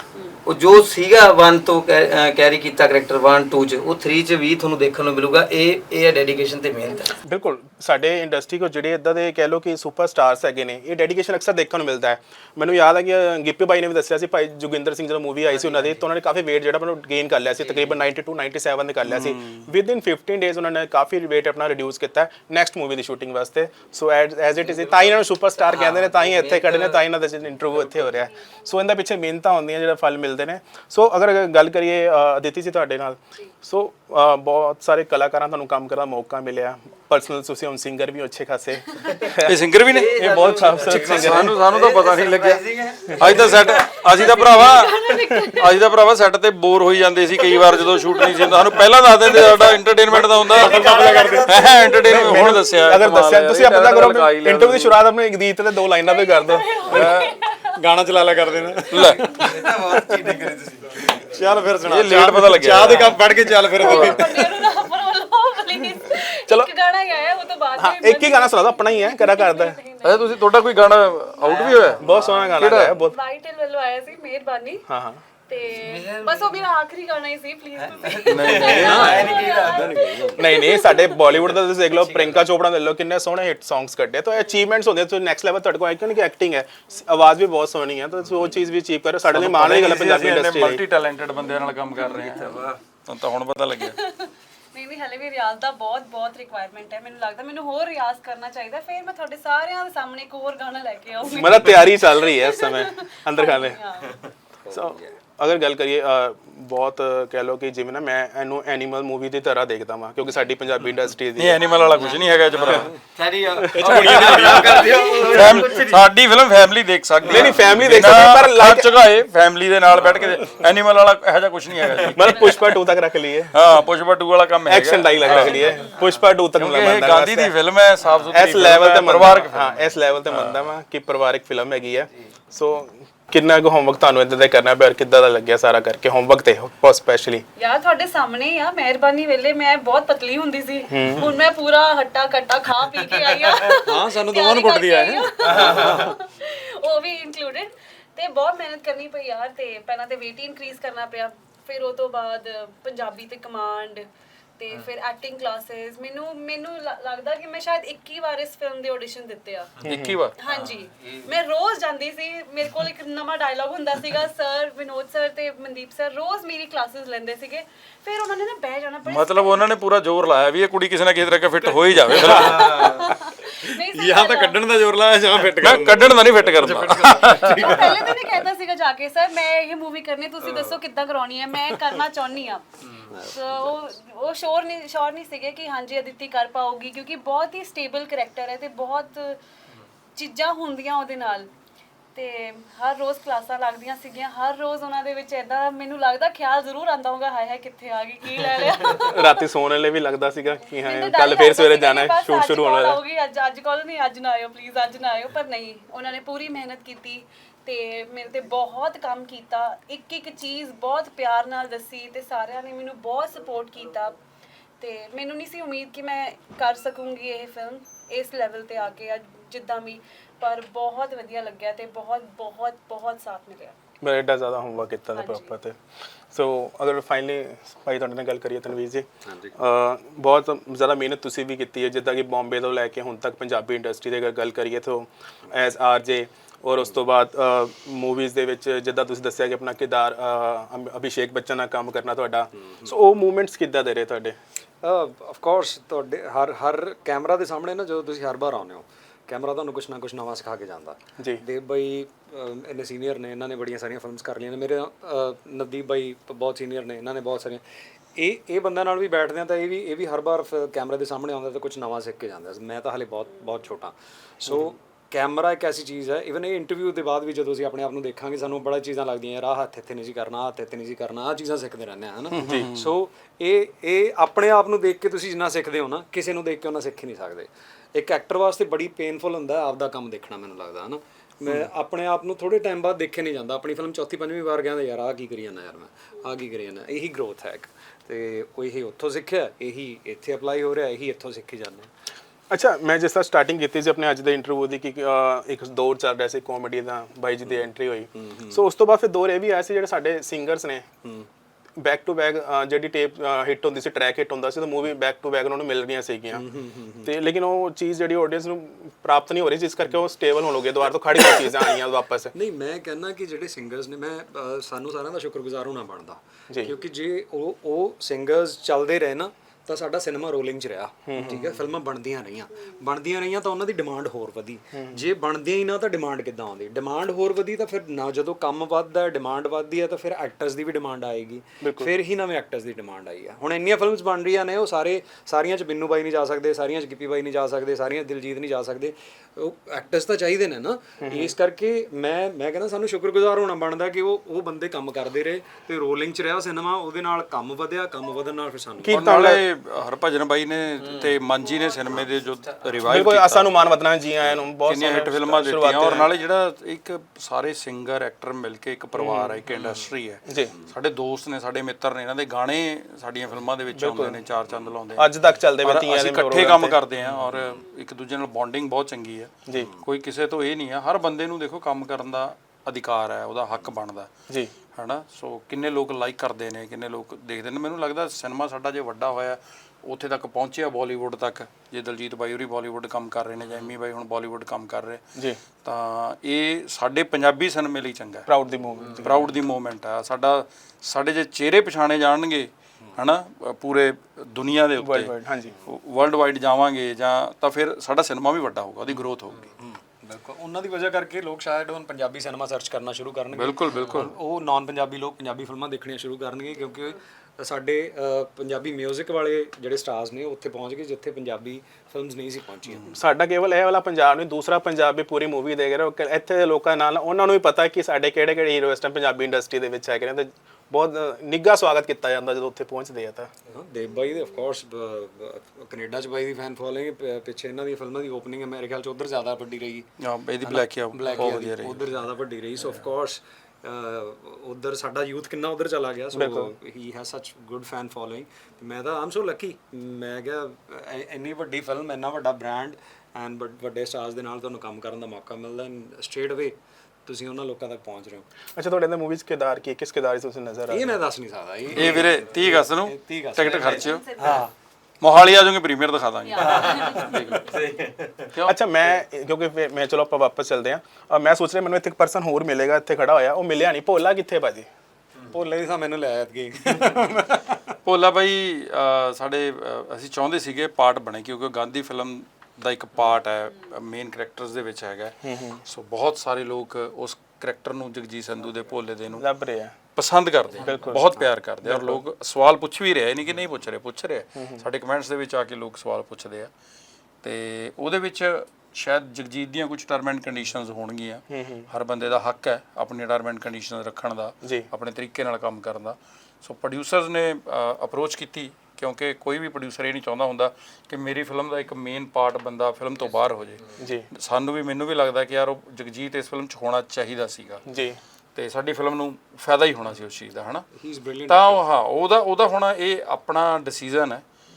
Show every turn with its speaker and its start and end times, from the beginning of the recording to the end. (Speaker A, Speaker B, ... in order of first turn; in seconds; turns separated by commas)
Speaker A: 0.5-7.2, Speaker B: 6.8-7.2, Speaker C: 7.2-39.6, Speaker A: 15.5-16.0, Speaker A: 17.6-18.0, Speaker D: 19.0-19.7, Speaker A: 24.6-27.1, Speaker A: 27.6-28.1, Speaker A: 39.1-39.3, Speaker D: 39.5-40.1, Speaker A: 39.9-44.1, Speaker C: 40.1-41.6, Speaker D: 40.8-42.6, Speaker D: 43.2-55.0, Speaker B: 43.7-45.8, Speaker B: 47.3-49.8, Speaker C: 50.1-56.7, Speaker A: 50.4-52.2, Speaker E: 50.5-51.6, Speaker B: 51.7-52.0, Speaker B: 56.0-57.7, Speaker D: 56.9-57.3, Speaker E: 56.9-57.2, Speaker E: 57.8-60.3, Speaker D: 58.9-59.4, Speaker B: 59.0-59.5, Speaker A: 59.1-61.5, Speaker E: 60.9-64.6, Speaker D: 61.8-63.1, Speaker A: 62.8-63.5, Speaker B: 63.8-71.0, Speaker D: 63.9-64.2, Speaker C: 67.8-69.8, Speaker D: 70.0-72.0, Speaker A: 71.4-72.6, Speaker C: 72.0-73.2, Speaker D: 72.6-73.0, Speaker B: 73.0-74.8, Speaker C: 74.9-75.2, Speaker B: 75.5-81.3, Speaker A: 75.7-76.7, Speaker A: 77.8-80.0, Speaker D: 78.2-79.2, Speaker E: 78.7-80.5, Speaker C: 80.4-90.8, Speaker A: 81.3-82.4, Speaker D: 89.3-94.0, Speaker B: 91.5-92.2, Speaker A: 92.1-92.7, Speaker B: 93.8-104.2, Speaker C: 101.3-103.8, Speaker E: 104.6-105.1, Speaker C: 104.7-111.6, Speaker D: 111.3-112.9, Speaker B: 111.6-112.5, Speaker A: 112.0-116.1, Speaker C: 113.7-114.1, Speaker E: 113.7-115.0, Speaker D: 113.8-122.8, Speaker C: 117.3-118.9, Speaker C: 122.1-123.5, Speaker D: 123.5-125.7, Speaker C: 124.7-127.5, Speaker B: 125.3-125.9, Speaker A: 125.9-126.2, Speaker D: 126.5-130.6, Speaker C: 128.3-137.4, Speaker B: 137.6-154.1, Speaker C: 140.9-141.3, Speaker E: 143.3-146.1, Speaker A: 145.5-146.0, Speaker B: 154.6-159.8, Speaker D: 159.8-160.3, Speaker C: 159.8-160.2, Speaker B: 160.4-169.7, Speaker A: 160.5-161.3, Speaker D: 169.1-173.0, Speaker E: 171.9-178.4, Speaker B: 172.1-174.6, Speaker D: 175.6-177.9, Speaker B: 177.4-182.6, Speaker E: 180.4-180.8, Speaker E: 181.7-182.0, Speaker E: 183.0-183.8, Speaker B: 183.2-189.4, Speaker B: 190.2-191.5, Speaker B: 192.1-199.4, Speaker C: 199.1-203.0, Speaker B: 200.7-214.2, Speaker B: 214.8-223.7, Speaker C: 224.0-225.8, Speaker B: 225.1-225.5, Speaker C: 226.3-244.3, Speaker E: 229.2-229.5, Speaker E: 242.6-242.9, Speaker E: 244.8-257.6, Speaker E: 258.1-291.9, Speaker D: 272.3-272.9, Speaker C: 272.4-272.7, Speaker C: 292.5-300.9, Speaker E: 297.4-298.6, Speaker C: 301.8-306.4, Speaker E: 306.3-307.1, Speaker C: 307.0-312.3, Speaker E: 312.3-349.1, Speaker C: 321.1-321.6, Speaker C: 324.7-325.1, Speaker C: 331.6-331.9, Speaker C: 341.0-341.3, Speaker C: 348.8-349.4, Speaker D: 348.9-353.7, Speaker A: 350.8-353.0, Speaker C: 352.8-356.1, Speaker D: 354.6-374.1, Speaker C: 358.9-359.4, Speaker C: 360.2-360.5, Speaker C: 363.7-364.2, Speaker C: 364.9-366.8, Speaker E: 367.0-367.6, Speaker E: 369.5-369.8, Speaker D: 374.7-385.0, Speaker D: 385.6-388.3, Speaker C: 388.3-389.2, Speaker D: 389.0-395.1, Speaker C: 394.8-395.5, Speaker D: 395.6-399.5, Speaker E: 399.6-413.0, Speaker D: 403.3-404.1, Speaker C: 412.9-423.3, Speaker E: 423.5-429.9, Speaker D: 430.0-431.9, Speaker E: 430.4-448.2, Speaker C: 436.1-436.5, Speaker C: 448.6-451.0, Speaker E: 450.7-454.5, Speaker D: 451.7-454.1, Speaker A: 453.4-453.8, Speaker B: 453.7-454.5, Speaker D: 455.0-457.4, Speaker B: 456.3-457.1, Speaker A: 456.4-458.3, Speaker E: 456.7-457.4, Speaker D: 458.3-458.6, Speaker C: 458.4-464.7, Speaker E: 465.3-467.7, Speaker D: 467.8-479.2, Speaker C: 475.2-475.6, Speaker C: 479.1-479.7, Speaker D: 479.9-486.5, Speaker E: 480.6-481.3, Speaker C: 480.6-481.0, Speaker C: 481.6-482.0, Speaker C: 484.4-484.6, Speaker D: 487.2-507.6, Speaker C: 491.3-491.7, Speaker C: 494.4-494.7, Speaker C: 503.8-504.1, Speaker C: 507.7-508.0, Speaker D: 508.3-510.6, Speaker E: 510.7-511.6, Speaker D: 511.3-514.2